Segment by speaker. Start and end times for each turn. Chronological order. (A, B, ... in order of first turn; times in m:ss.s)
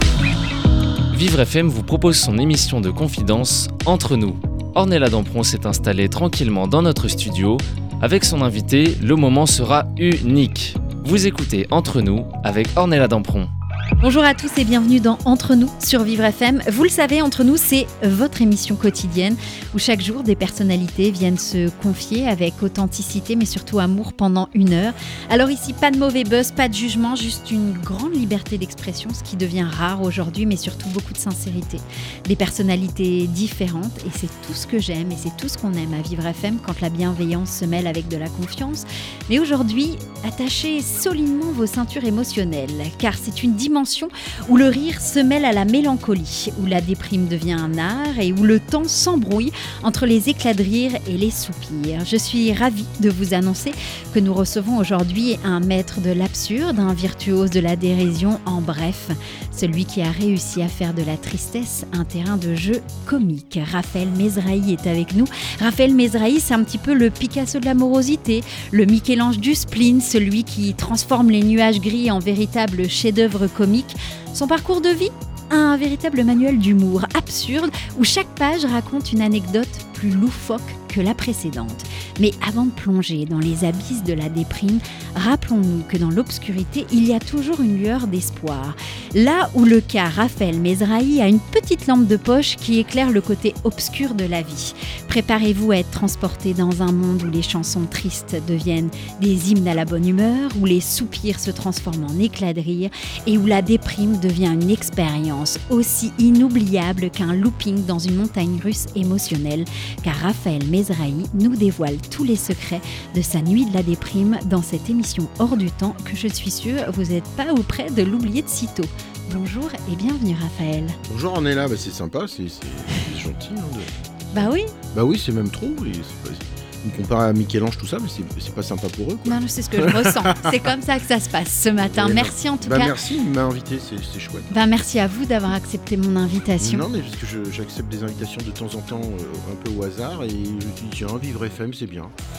0:01.1-0:13.5 A
0:14.0-2:01.0 B
2:01.0-2:10.7 C
2:04.3-2:04.7 B
2:09.3-2:13.0 B
2:11.8-2:14.5 C
2:14.5-2:16.9 B
2:16.6-2:22.1 C